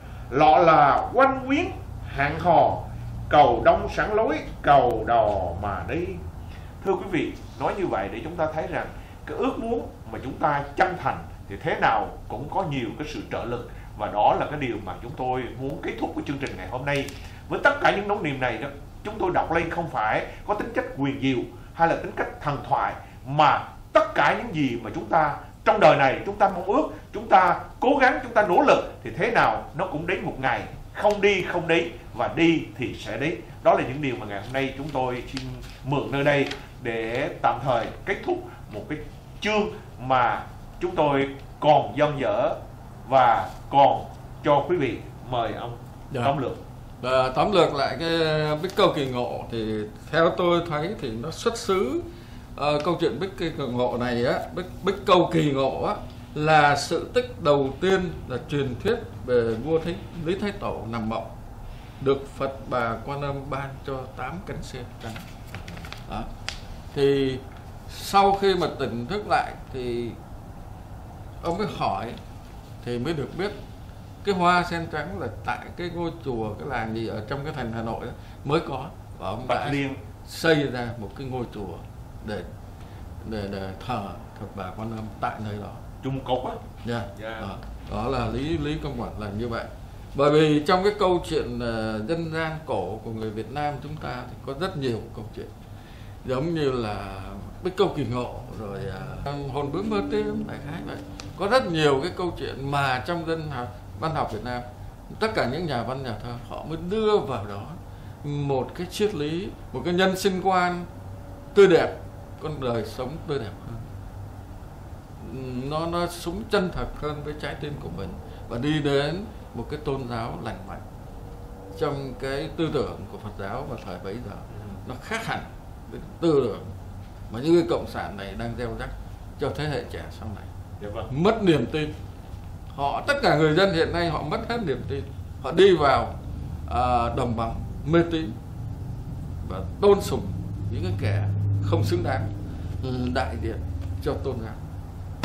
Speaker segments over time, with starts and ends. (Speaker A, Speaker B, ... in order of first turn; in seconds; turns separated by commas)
Speaker A: 0.3-6.2, Speaker A: 6.8-46.6, Speaker B: 47.0-52.0, Speaker B: 52.6-61.3, Speaker B: 62.0-65.2, Speaker B: 66.9-70.2, Speaker B: 71.4-72.2, Speaker B: 72.8-73.6, Speaker B: 74.2-82.5, Speaker A: 79.5-80.0, Speaker B: 83.2-85.8, Speaker A: 86.0-86.6, Speaker B: 86.8-95.5, Speaker A: 87.2-87.5, Speaker B: 96.2-110.9, Speaker B: 111.5-113.9, Speaker B: 115.2-120.8, Speaker B: 121.7-126.7, Speaker A: 124.5-124.8, Speaker B: 127.3-130.5, Speaker A: 130.8-131.1, Speaker B: 131.1-131.9, Speaker B: 132.7-138.4, Speaker B: 139.4-144.6